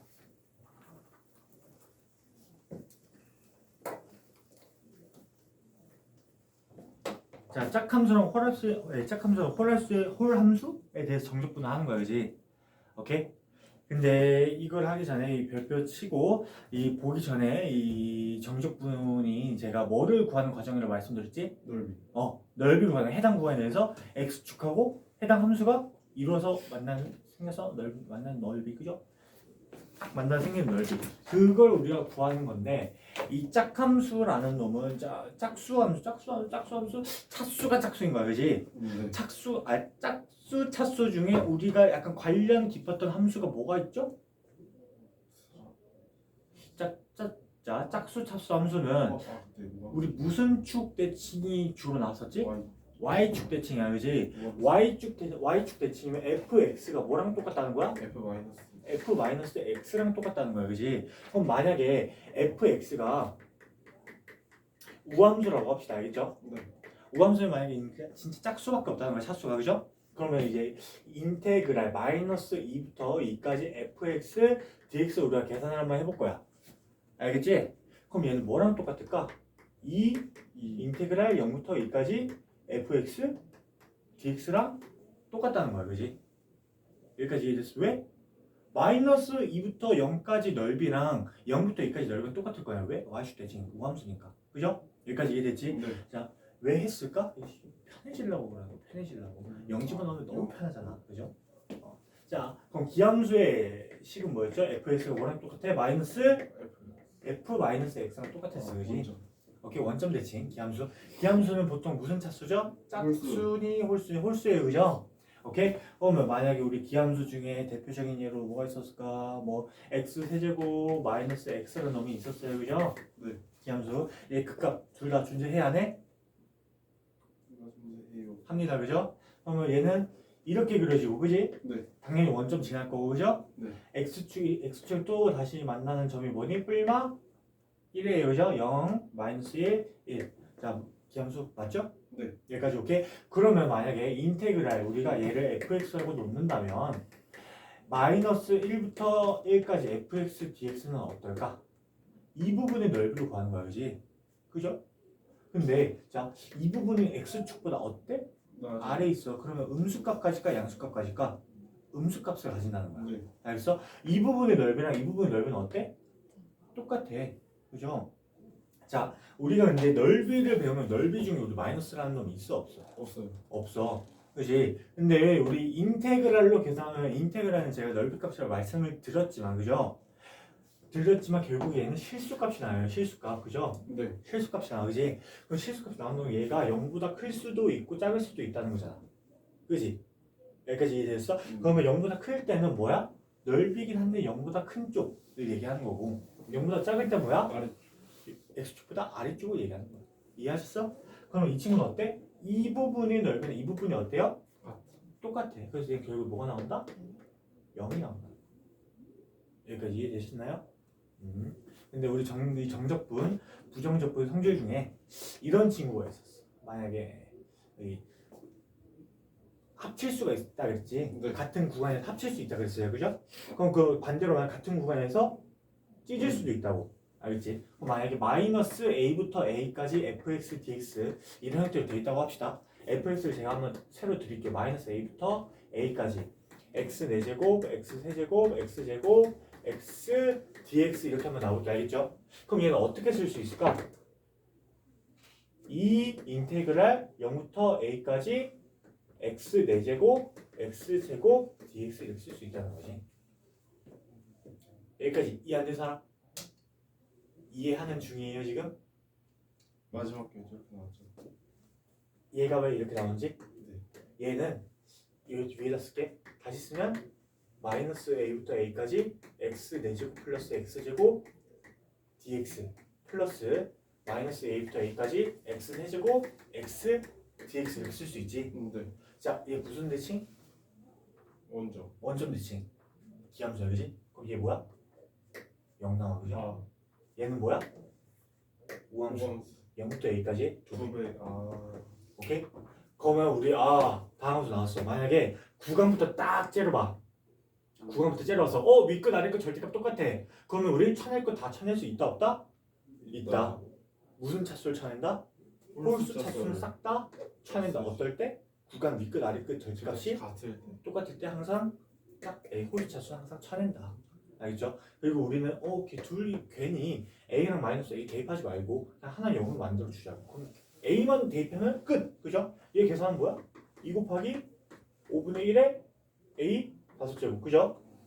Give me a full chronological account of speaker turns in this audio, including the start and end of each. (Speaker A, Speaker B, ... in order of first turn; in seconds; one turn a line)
Speaker A: 7.5-12.4
Speaker A: 13.0-13.3
Speaker A: 13.9-21.6
Speaker B: 21.6-22.0
Speaker A: 22.1-29.0
Speaker A: 30.0-44.1
Speaker B: 38.7-39.2
Speaker B: 45.3-45.7
Speaker A: 46.8-49.3
Speaker B: 49.1-50.1
Speaker A: 49.9-58.0
Speaker B: 52.4-52.7
Speaker B: 54.3-54.7
Speaker B: 58.0-58.9
Speaker A: 58.8-63.4
Speaker A: 65.0-66.4
Speaker B: 66.4-66.7
Speaker A: 67.1-76.4
Speaker A: 77.2-83.4
Speaker B: 80.5-80.9
Speaker A: 84.2-86.2
Speaker A: 87.2-88.1
Speaker A: 88.7-106.5
Speaker B: 95.7-96.0
Speaker B: 99.5-100.6
Speaker B: 106.4-107.0
Speaker A: 107.2-109.1
Speaker B: 108.5-109.2
Speaker A: 109.6-123.0
Speaker B: 112.9-113.5
Speaker B: 123.2-123.4
Speaker A: 123.6-126.0
Speaker B: 127.5-128.5
Speaker A: 128.5-137.2
Speaker B: 131.6-131.9
Speaker A: 137.9-141.9
Speaker B: 142.1-142.4
Speaker A: 142.5-151.6
Speaker A: 152.3-154.8
Speaker A: 155.5-161.4
Speaker B: 158.5-159.1
Speaker A: 161.9-165.9
Speaker B: 162.9-163.3
Speaker A: 166.7-168.1
Speaker A: 168.9-172.9
Speaker B: 173.0-173.4
Speaker A: 173.5-180.0
Speaker A: 180.9-189.1
Speaker B: 183.9-184.2
Speaker A: 189.7-190.0
Speaker A: 190.7-197.6
Speaker B: 191.4-191.9
Speaker B: 197.5-197.8
Speaker A: 198.4-204.4
Speaker B: 204.6-205.0
Speaker A: 205.2-207.0
Speaker A: 207.7-208.3
Speaker A: 209.7-210.7
Speaker A: 211.2-218.0
Speaker A: 219.8-225.4
Speaker B: 221.1-221.4
Speaker A: 226.1-243.9
Speaker B: 226.2-226.5
Speaker A: 245.7-248.6
Speaker A: 249.2-253.0
Speaker A: 255.0-256.0
Speaker A: 257.5-258.8
Speaker B: 259.9-261.1
Speaker A: 262.3-263.4
Speaker B: 263.6-263.8
Speaker A: 264.2-264.7
Speaker A: 265.3-267.1
Speaker A: 267.6-271.3
Speaker A: 272.2-278.5
Speaker B: 278.5-278.9
Speaker A: 279.1-280.3
Speaker B: 281.5-281.9
Speaker A: 282.0-282.7
Speaker A: 283.3-284.7
Speaker A: 285.8-286.5
Speaker B: 286.3-286.6
Speaker A: 287.2-287.7
Speaker A: 288.9-291.0
Speaker B: 289.1-289.6
Speaker B: 290.7-292.0
Speaker A: 292.2-297.0
Speaker A: 297.8-302.5
Speaker B: 303.0-303.7
Speaker A: 303.1-303.6
Speaker A: 304.2-305.2
Speaker B: 305.7-306.7
Speaker A: 305.8-310.2
Speaker B: 307.5-308.1
Speaker B: 309.8-310.8
Speaker A: 310.8-324.5
Speaker A: 325.1-327.8